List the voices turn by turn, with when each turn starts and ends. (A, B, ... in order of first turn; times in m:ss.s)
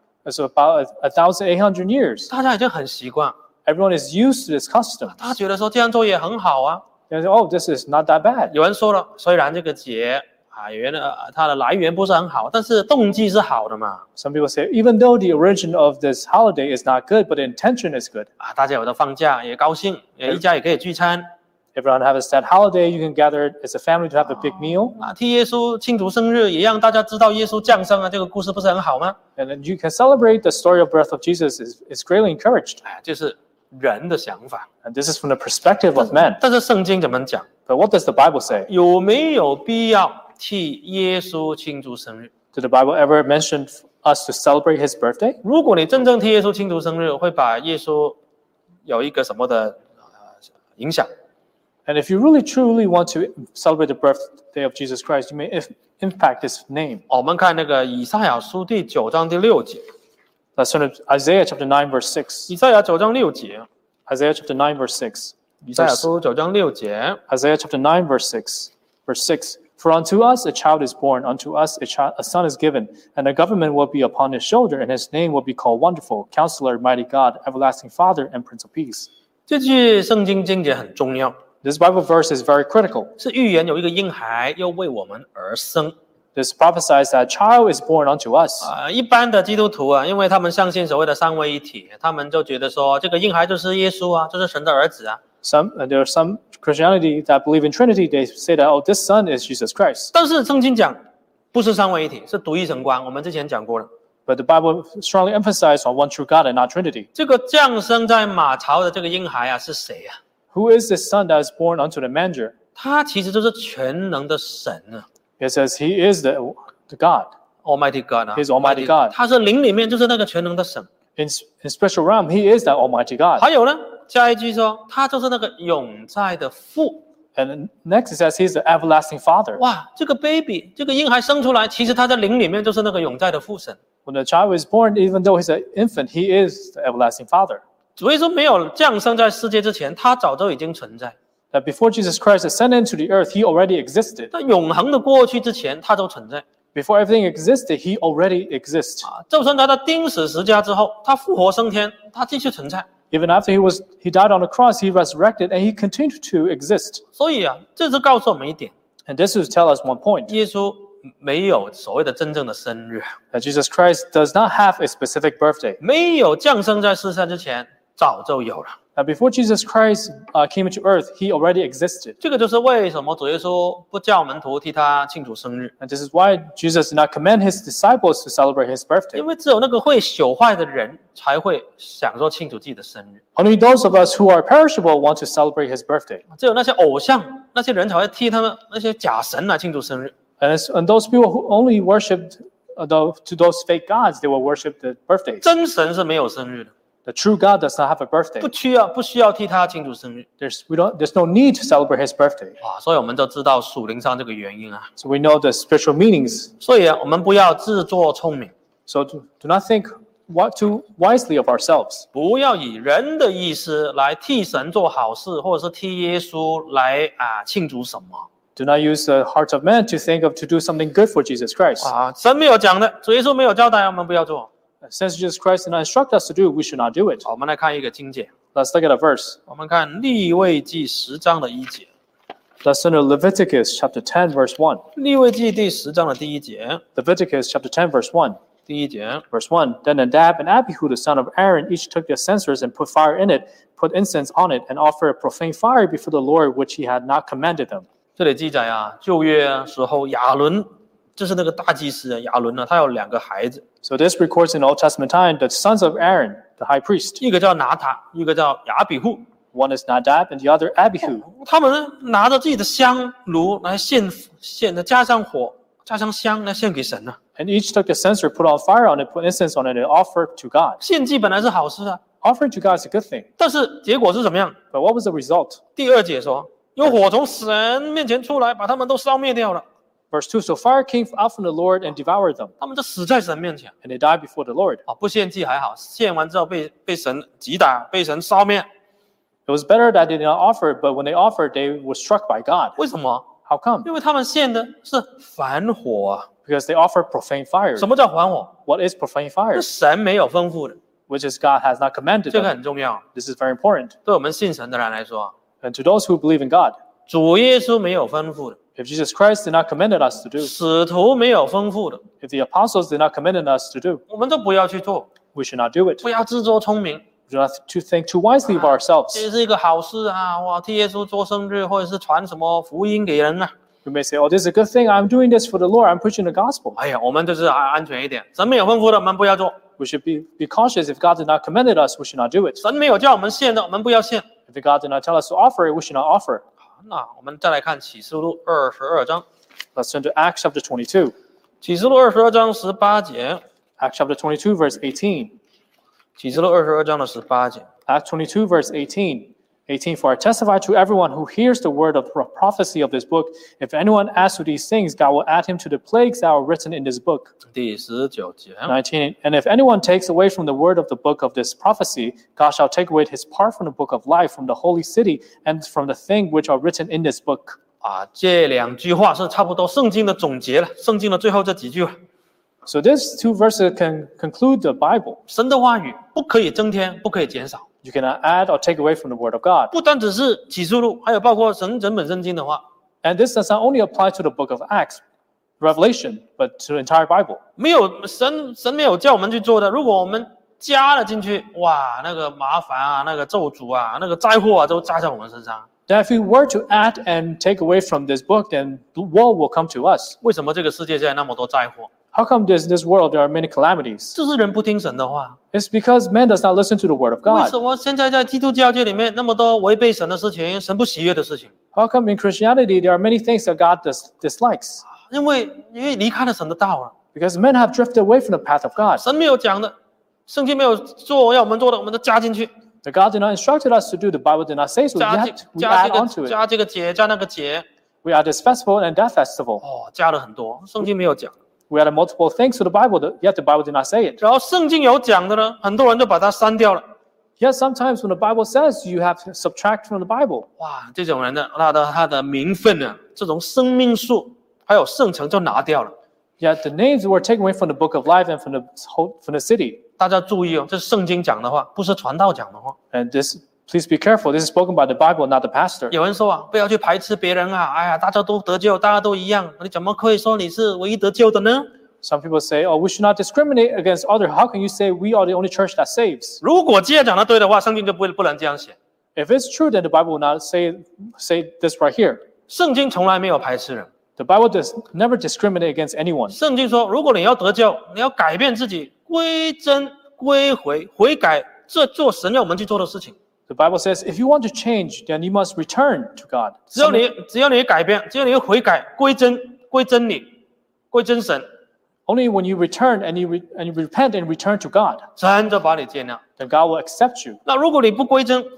0:00.2-0:02.3 A
0:02.3-0:03.3 B
0:03.6-0:05.3 A
0:05.2-0:06.8 B
0:07.1-0:08.5 A
0:08.5-0:14.0 B
0:14.2-0:18.3 A
0:18.4-0:21.3 B
0:21.7-0:25.0 A
0:24.9-0:29.2 B
0:29.4-0:32.8 A
0:32.8-0:34.7 B
0:34.8-0:36.4 A
0:36.0-0:37.5 B
0:37.7-0:38.7 A
0:38.7-0:42.3 B
0:42.5-0:45.4 A
0:45.4-0:48.2 B
0:48.8-0:49.8 B
0:50.8-0:51.1 B
0:51.8-0:57.0 A
0:57.1-0:59.8 B
1:00.6-1:02.5 A
1:02.5-1:03.7 B
1:04.1-1:06.1 A
1:05.8-1:07.2 B
1:07.3-1:19.1 A
1:19.5-1:21.4 B
1:21.6-1:23.1 A
1:23.2-1:25.9 B
1:26.3-1:28.7 A
1:28.6-1:35.2 B
1:35.4-1:40.1 A
1:40.1-1:41.0 B
1:41.5-1:43.9 B
1:44.2-1:47.1 A
1:47.1-1:50.2 B
1:50.5-1:52.5 A
1:52.8-1:55.0 B
1:55.4-1:57.3 A
1:57.6-2:00.9 B
1:58.3-1:59.2 A
2:01.2-2:03.4 A
2:03.4-2:07.0 B
2:07.4-2:09.6 A
2:09.6-2:13.8 B
2:14.0-2:17.6 A
2:18.0-2:21.2 B
2:21.5-2:24.3 A
2:24.3-2:26.4 B
2:26.7-2:29.1 A
2:29.0-2:32.8 B
2:33.1-2:37.0 A
2:37.2-2:38.7 B
2:39.0-2:40.3 A
2:40.3-2:43.1 B
2:43.3-2:45.8 A
2:45.8-2:48.8 B
2:49.0-2:52.2 A
2:52.2-2:55.7 B
2:55.8-2:59.2 A
2:59.1-3:03.2 B
3:03.4-3:06.2 A
3:06.3-3:10.1 B
3:10.4-3:15.4 A
3:15.4-3:16.7 B
3:17.0-3:18.5 A
3:18.4-3:20.3 B
3:20.4-3:22.6 A
3:22.6-3:24.9 B
3:25.0-3:26.5 A
3:26.6-3:28.5 B
3:28.9-3:32.0 A
3:32.1-3:38.3 B
3:38.6-3:41.9 A
3:41.8-3:44.5 B
3:44.8-3:47.2 A
3:47.2-3:48.3 B
3:48.5-3:49.4 A
3:49.5-3:51.9 B
3:52.6-3:54.8 A
3:55.0-3:56.8 B
3:57.0-3:58.4 A
3:58.7-3:59.2 B
3:59.3-4:07.8 A
4:08.2-4:13.6 B
4:13.8-4:17.2 A
4:17.2-4:19.2 B
4:19.5-4:21.2 A
4:21.0-4:27.2 B
4:27.4-4:30.8 A
4:30.8-4:32.0 B
4:32.2-4:33.3 A
4:33.4-4:34.6 B
4:34.7-4:35.6 A
4:35.8-4:39.6 B
4:40.1-4:42.5 A
4:42.6-4:43.7 B
4:43.8-4:44.8 A
4:44.9-4:48.7 B
4:49.5-4:52.8 A
4:52.8-4:53.3 B
4:53.4-4:53.9 A
4:53.8-4:56.3 B
4:56.4-4:57.9 A
4:57.8-4:58.5 B
4:58.6-4:59.6 A
4:59.5-5:00.8 B
5:01.1-5:02.5 A
5:02.3-5:03.0 B
5:03.1-5:03.9 A
5:04.0-5:05.3 B
5:05.6-5:06.8 A
5:07.1-5:08.6 B
5:08.8-5:10.5 A
5:10.4-5:12.0 B
5:12.2-5:14.0 A
5:14.1-5:15.1 B
5:15.3-5:16.0 A
5:16.0-5:17.0 B
5:17.3-5:19.3 A
5:19.1-5:23.5 B
5:23.8-5:26.8 A
5:26.8-5:29.6 B
5:29.8-5:32.6 A
5:32.6-5:34.2 B
5:34.5-5:36.4 A
5:36.8-5:39.2 B
5:39.7-5:41.1 A
5:41.6-5:43.4 B
5:43.8-5:45.3 A
5:46.2-5:47.6 B
5:47.9-5:57.3 A
5:57.5-5:58.7 B
5:58.7-6:07.6 A
6:07.8-6:12.0 B
6:12.6-6:15.2 A
6:15.3-6:17.6 B
6:17.8-6:19.7 A
6:19.7-6:22.6 B
6:23.0-6:25.0 A
6:25.6-6:27.4 A
6:27.6-6:35.7 B
6:35.9-6:40.2 A
6:40.2-6:41.9 B
6:42.1-6:44.2 A
6:44.1-6:45.4 B
6:45.5-6:47.6 A
6:47.2-6:51.5 B
6:51.7-6:54.8 A
6:54.9-6:56.9 B
6:57.1-6:59.0 A
6:59.0-6:59.7 B
7:00.3-7:02.5 B
7:02.8-7:06.4 A
7:05.0-7:07.6 B
7:08.0-7:09.6 A
7:09.6-7:11.3 B
7:11.7-7:14.2 A
7:14.2-7:16.8 B
7:17.4-7:20.5 A
7:20.6-7:25.9 B
7:26.4-7:29.8 A
7:30.0-7:32.8 B
7:32.9-7:35.9 A
7:35.9-7:41.7 B
7:42.0-7:46.4 A
7:46.4-7:48.8 B
7:49.2-7:52.2 A
7:52.5-7:53.9 B
7:54.2-7:56.4 A
7:56.3-8:03.2 B
8:03.5-8:07.0 A
8:06.7-8:10.4 B
8:10.9-8:11.5 B
8:12.1-8:15.1 A
8:15.2-8:16.2 B
8:16.4-8:17.4 A
8:17.4-8:18.5 B